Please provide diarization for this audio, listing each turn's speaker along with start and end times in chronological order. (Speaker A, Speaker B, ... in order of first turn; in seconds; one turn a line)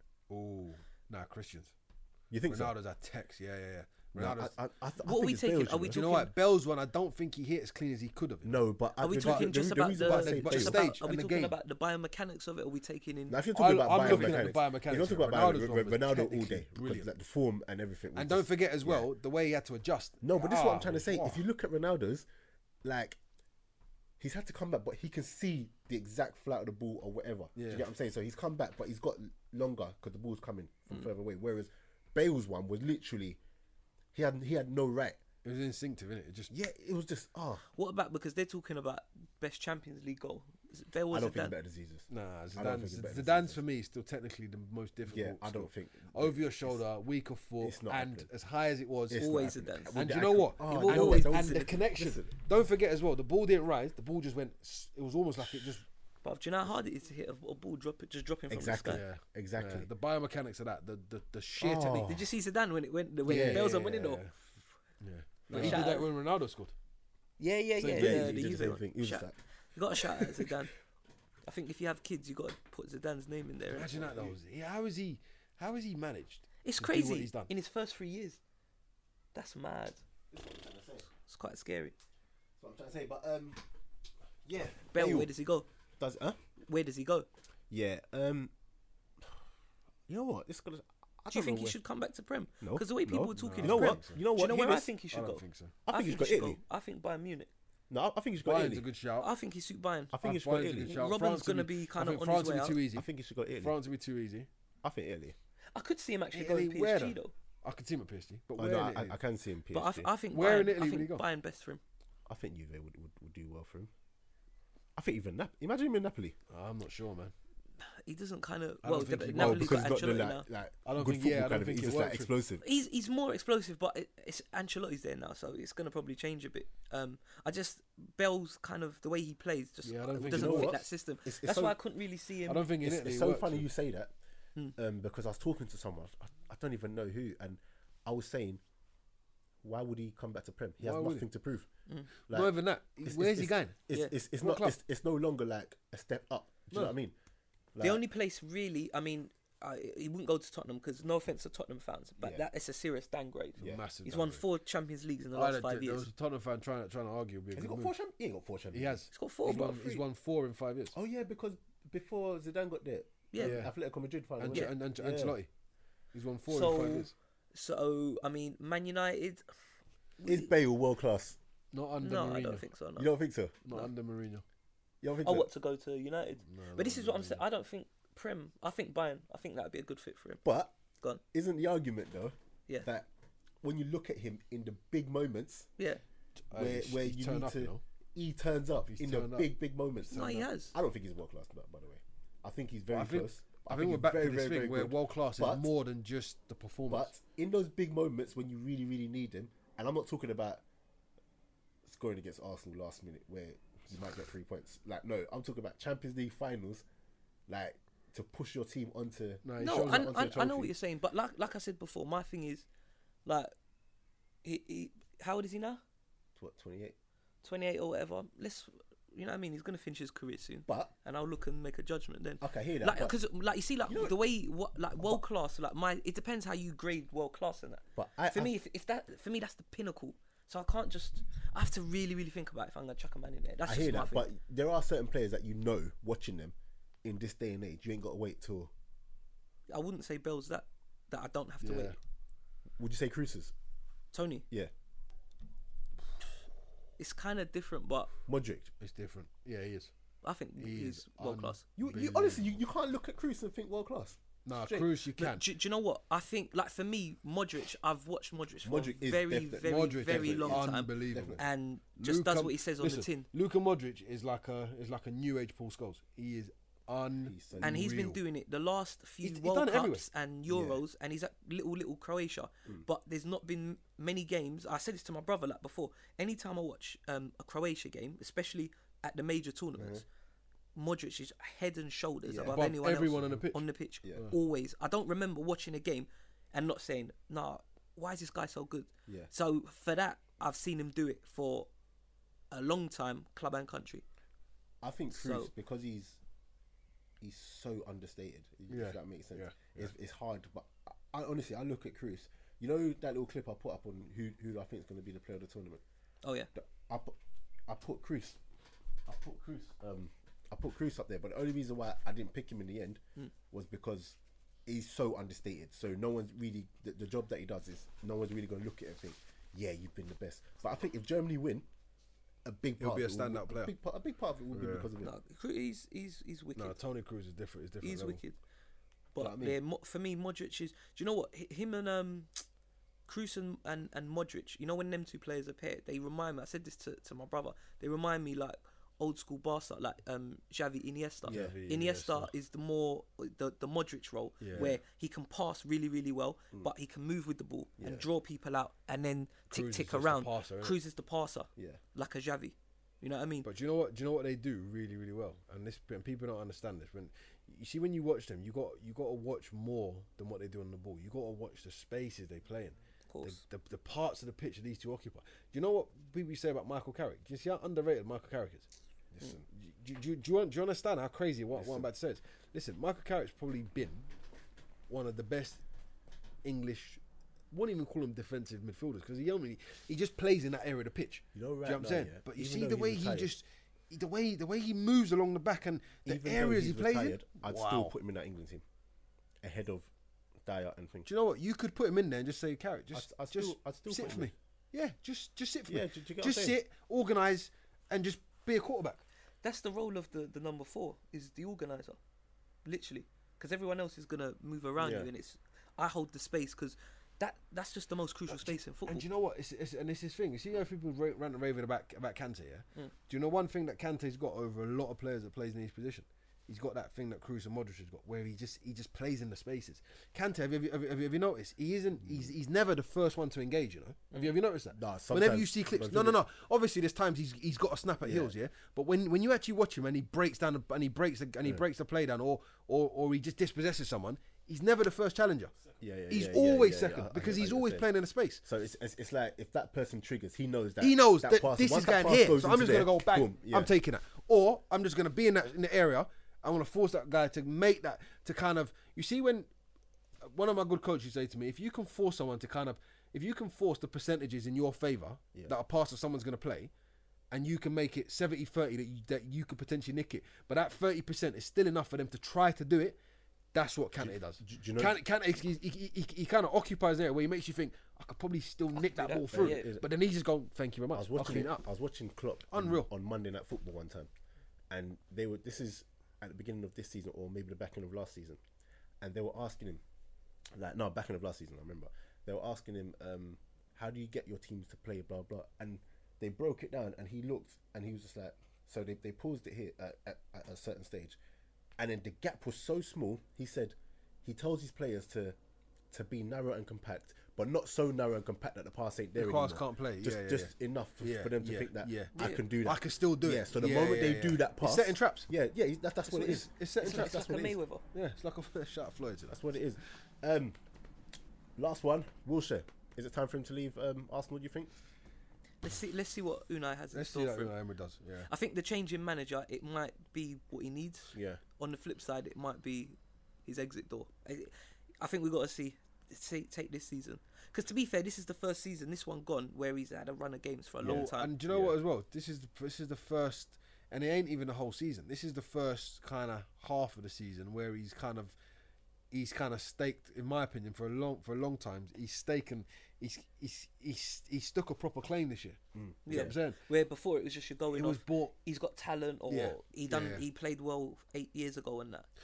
Speaker A: 0.3-1.7
Speaker B: 2.3-2.7
Speaker A: 2.5-4.5
Speaker B: 4.1-6.0
Speaker C: 5.0-6.3
Speaker A: 5.9-8.6
Speaker B: 8.4-10.9
Speaker C: 9.0-13.4
Speaker A: 9.2-11.6
Speaker B: 13.3-19.1
Speaker A: 13.5-17.1
Speaker A: 18.1-21.4
Speaker B: 20.2-22.2
Speaker B: 22.8-23.2
Speaker B: 24.2-33.4
Speaker A: 27.6-27.8
Speaker B: 34.1-35.2
Speaker A: 35.4-36.5
Speaker B: 36.5-37.6
Speaker C: 37.7-41.5
Speaker B: 41.1-43.6
Speaker A: 42.1-49.3
Speaker B: 45.1-46.8
Speaker B: 47.6-48.3
Speaker B: 49.1-52.3
Speaker C: 49.1-50.0
Speaker A: 49.9-55.8
Speaker C: 50.6-51.8
Speaker C: 56.2-59.0
Speaker B: 58.5-59.9
Speaker A: 58.9-62.1
Speaker B: 61.6-62.3
Speaker C: 62.0-64.2
Speaker A: 63.2-64.3
Speaker B: 63.3-63.8
Speaker A: 65.0-66.7
Speaker B: 65.5-65.8
Speaker C: 65.5-66.1
Speaker C: 67.4-70.7
Speaker A: 67.8-68.5
Speaker B: 67.9-69.4
Speaker B: 69.9-70.5
Speaker C: 71.4-74.0
Speaker A: 73.7-77.5
Speaker C: 76.6-78.4
Speaker C: 79.3-80.0
Speaker B: 80.3-81.1
Speaker C: 81.3-81.9
Speaker B: 82.6-83.6
Speaker B: 84.4-85.3
Speaker C: 84.9-85.7
Speaker B: 86.0-86.4
Speaker C: 86.6-87.3
Speaker B: 87.7-88.5
Speaker B: 90.1-91.8
Speaker C: 91.3-97.5
Speaker B: 92.6-94.9
Speaker A: 93.4-94.2
Speaker A: 95.1-95.7
Speaker B: 95.8-96.6
Speaker B: 97.9-98.8
Speaker A: 98.4-99.3
Speaker C: 99.2-100.2
Speaker B: 100.1-101.0
Speaker A: 100.2-104.5
Speaker C: 100.9-102.8
Speaker B: 102.9-103.7
Speaker B: 104.8-105.3
Speaker C: 105.7-107.3
Speaker A: 106.3-109.2
Speaker B: 108.6-110.1
Speaker C: 109.7-111.8
Speaker A: 110.3-111.2
Speaker B: 112.3-113.9
Speaker B: 115.0-116.3
Speaker A: 116.5-117.3
Speaker C: 117.8-120.5
Speaker A: 118.8-119.8
Speaker B: 119.3-122.6
Speaker A: 120.8-122.3
Speaker C: 122.6-132.7
Speaker A: 129.8-130.8
Speaker B: 130.3-131.8
Speaker A: 132.5-133.7
Speaker B: 132.8-134.1
Speaker B: 134.8-138.6
Speaker B: 139.6-141.7
Speaker A: 140.8-141.2
Speaker B: 142.3-147.1
Speaker A: 142.3-143.8
Speaker A: 144.4-144.8
Speaker B: 147.7-148.0
Speaker C: 147.8-156.1
Speaker B: 152.2-152.4
Speaker A: 153.6-154.4
Speaker A: 155.3-157.9
Speaker B: 157.5-160.0
Speaker A: 158.7-160.9
Speaker C: 159.1-159.7
Speaker B: 160.9-165.3
Speaker C: 163.3-163.6
Speaker A: 163.4-163.7
Speaker A: 164.4-165.5
Speaker A: 166.1-167.1
Speaker C: 166.5-169.4
Speaker C: 170.2-170.5
Speaker B: 170.2-171.4
Speaker A: 171.7-172.6
Speaker C: 172.0-173.1
Speaker B: 173.0-173.8
Speaker A: 173.7-174.4
Speaker B: 175.0-175.5
Speaker C: 175.2-180.4
Speaker A: 176.5-177.4
Speaker B: 180.4-180.7
Speaker B: 181.3-183.1
Speaker B: 183.6-185.7
Speaker A: 186.5-187.8
Speaker B: 186.5-195.7
Speaker A: 188.8-189.5
Speaker C: 190.1-190.7
Speaker A: 190.1-190.5
Speaker A: 192.9-197.1
Speaker B: 196.9-200.6
Speaker B: 201.8-206.8
Speaker B: 207.5-210.7
Speaker A: 209.4-210.3
Speaker C: 209.6-212.7
Speaker C: 213.2-213.5
Speaker C: 214.4-215.8
Speaker B: 216.3-216.9
Speaker C: 217.4-234.2
Speaker B: 220.7-220.9
Speaker B: 222.4-223.2
Speaker B: 223.9-224.2
Speaker B: 227.9-228.5
Speaker B: 233.7-238.7
Speaker C: 239.7-241.9
Speaker A: 241.6-241.9
Speaker B: 242.8-243.5
Speaker C: 244.1-244.4
Speaker C: 247.0-248.1
Speaker B: 248.3-248.7
Speaker A: 248.8-249.9
Speaker C: 250.2-251.6
Speaker A: 250.6-252.5
Speaker B: 251.8-254.9
Speaker A: 254.4-255.4
Speaker C: 255.2-263.3
Speaker B: 258.6-261.4
Speaker A: 259.6-261.5
Speaker A: 262.0-268.2
Speaker B: 267.2-267.8
Speaker C: 267.6-280.1
Speaker A: 269.2-270.1
Speaker B: 270.5-270.8
Speaker B: 279.8-280.0
Speaker C: 280.7-291.7
Speaker B: 282.2-282.6
Speaker A: 282.4-284.3
Speaker B: 284.0-284.3
Speaker C: 292.5-294.0
Speaker B: 294.8-296.2
Speaker C: 295.1-295.5
Speaker B: 297.2-305.8
Speaker A: 298.7-299.9
Speaker C: 306.2-306.5
Speaker B: 306.5-307.1
Speaker B: 307.7-308.4
Speaker B: 309.1-313.0
Speaker B: 313.5-321.7
Speaker B: 322.4-325.1
Speaker A: 322.8-323.7
Speaker A: 324.5-324.9
Speaker C: 325.0-326.8
Speaker A: 326.6-328.2
Speaker C: 327.8-328.4
Speaker C: 329.1-332.4
Speaker B: 329.2-329.6
Speaker C: 333.1-353.5
Speaker A: 341.2-342.3
Speaker B: 341.3-341.6
Speaker A: 344.4-344.8
Speaker B: 347.8-348.1
Speaker A: 349.5-350.8
Speaker B: 351.6-351.8
Speaker A: 353.4-374.1
Speaker C: 363.1-363.4
Speaker B: 371.5-371.9
Speaker A: 374.9-375.6
Speaker A: 376.4-387.9
Speaker B: 381.3-383.3
Speaker B: 386.1-388.6
Speaker B: 389.4-389.9
Speaker B: 390.4-391.1
Speaker A: 391.1-399.0
Speaker B: 392.9-394.3
Speaker B: 395.7-396.6
Speaker C: 399.4-402.0
Speaker C: 402.6-409.1
Speaker B: 404.8-405.1
Speaker A: 408.9-438.4
Speaker B: 424.7-426.2
Speaker B: 428.0-428.3
Speaker B: 435.8-437.9
Speaker B: 438.4-443.7
Speaker A: 440.8-449.5
Speaker A: 450.2-456.7
Speaker A: 457.3-463.0
Speaker A: 463.5-471.7
Speaker B: 464.0-465.0
Speaker C: 468.7-469.7
Speaker B: 469.3-469.9
Speaker B: 470.9-474.1
Speaker A: 472.5-472.9
Speaker B: 474.7-478.4
Speaker B: 479.0-479.8
Speaker B: 480.5-491.2
Speaker B: 491.8-495.4
Speaker B: 495.9-507.6
Speaker A: 499.2-505.3
Speaker C: 502.1-502.4
Speaker A: 506.0-509.4
Speaker C: 506.8-507.8
Speaker B: 509.3-510.6
Speaker B: 511.6-514.7
Speaker C: 515.6-517.5
Speaker A: 516.9-518.3
Speaker C: 518.3-531.3
Speaker B: 521.1-521.4
Speaker B: 530.8-531.8
Speaker A: 530.8-538.3
Speaker A: 539.1-546.6
Speaker B: 545.7-546.3
Speaker C: 546.0-552.1
Speaker A: 547.7-548.3
Speaker A: 549.3-550.2